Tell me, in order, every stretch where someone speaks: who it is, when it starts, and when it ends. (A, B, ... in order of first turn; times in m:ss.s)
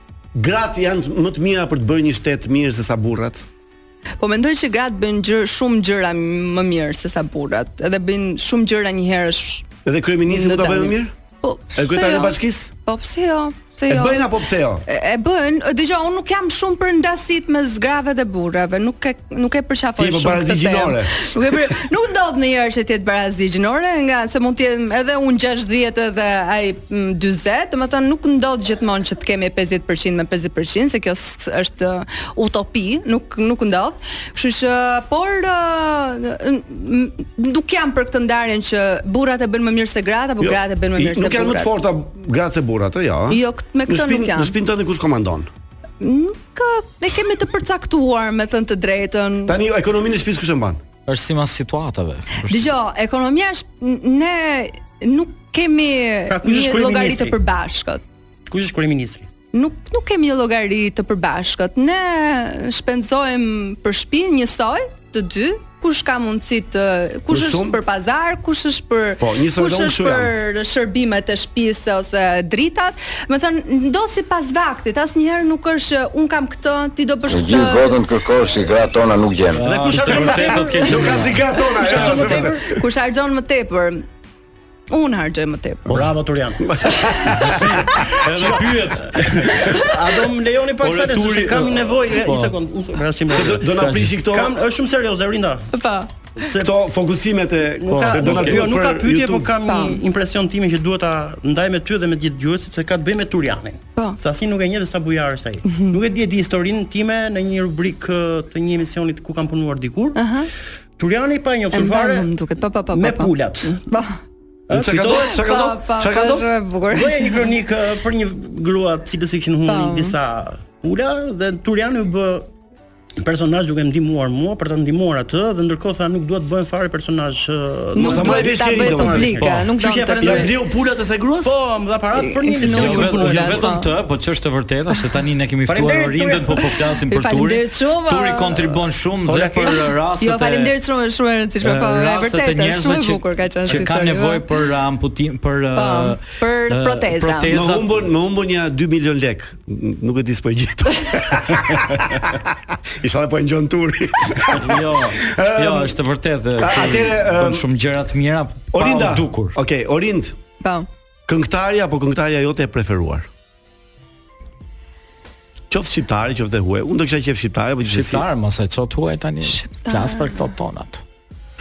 0:00.3-0:03.4 A
0:04.2-0:09.7 B
0:09.8-0:11.1 A
0:10.3-0:14.3 B
0:11.8-0:12.7 A
0:13.9-0:14.8 A
0:14.9-0:41.7 B
0:20.0-0:21.3 A
0:40.4-0:45.5 A
0:43.3-0:44.6 B
0:46.0-0:49.6 B
0:49.5-0:50.8 A
0:51.1-0:52.7 C
0:52.4-0:58.0 B
0:56.3-0:57.4 D
0:58.5-0:59.3 D
0:59.5-1:18.0 B
1:07.3-1:07.8 A
1:09.2-1:10.3 A
1:17.3-1:19.6 E
1:19.5-1:22.4 C
1:19.6-1:22.8 A
1:19.7-1:22.7 D
1:22.6-1:24.0 B
1:24.9-1:26.0 B
1:25.9-1:27.6 D
1:26.6-1:27.7 A
1:27.3-1:29.6 C
1:28.2-1:33.7 D
1:30.8-1:32.5 C
1:33.3-1:34.6 A
1:33.3-1:34.1 C
1:34.2-1:35.7 D
1:35.7-1:36.1 B
1:36.4-1:36.7 D
1:36.6-1:39.5 A
1:37.8-1:50.2 D
1:37.9-1:38.7 C
1:39.6-1:40.0 B
1:45.6-1:45.9 B
1:50.1-1:50.5 B
1:51.0-1:52.3 D
1:51.7-1:54.2 B
1:52.9-1:53.8 D
1:54.7-1:55.4 D
1:54.7-1:56.5 A
1:55.2-1:57.5 B
1:56.9-2:02.5 D
1:59.6-2:00.2 B
2:03.2-2:10.5 D
2:07.9-2:10.5 B
2:08.0-2:09.6 A
2:10.2-2:11.5 A
2:11.4-2:13.7 D
2:12.1-2:13.9 B
2:12.6-2:20.7 C
2:15.7-2:16.6 D
2:17.1-2:18.8 B
2:19.2-2:19.8 D
2:20.2-2:24.4 B
2:21.6-2:28.0 C
2:25.7-2:27.5 B
2:27.5-2:36.0 A
2:34.5-2:39.6 C
2:36.6-2:37.6 A
2:38.7-2:40.4 A
2:40.6-2:40.9 B
2:41.3-2:43.3 A
2:45.7-2:48.2 A
2:47.9-2:51.0 C
2:49.5-2:50.4 B